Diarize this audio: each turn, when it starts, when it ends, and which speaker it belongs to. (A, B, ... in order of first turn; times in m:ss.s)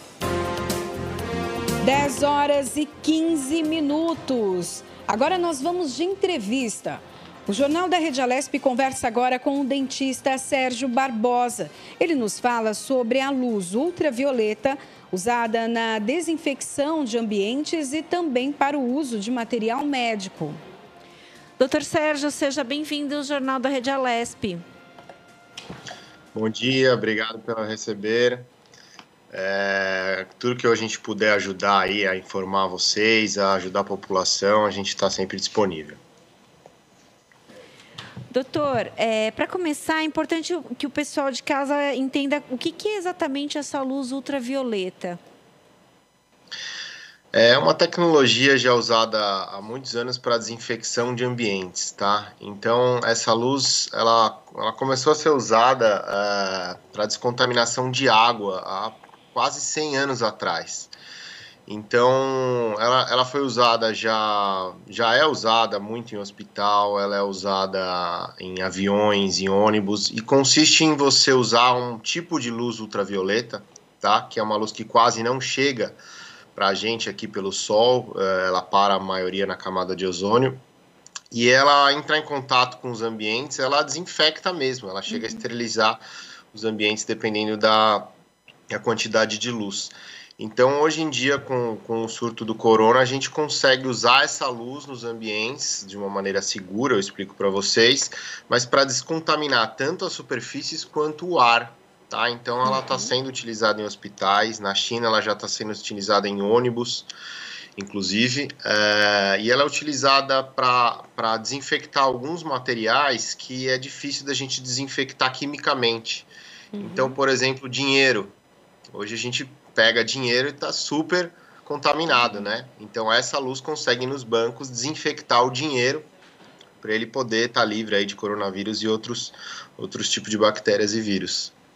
0:01.8-0:20.6 A
0:21.6-0:24.6 B
0:26.3-0:28.5 C
0:29.3-0:36.0 C
0:38.3-0:45.2 B
0:47.3-1:00.9 C
1:01.7-1:16.0 C
1:16.6-1:20.6 C
1:21.3-1:26.0 C
1:25.1-1:25.4 B
1:26.5-1:28.1 C
1:28.7-1:47.1 C
1:47.8-1:58.4 C
1:58.9-2:06.1 C
2:06.8-2:11.5 C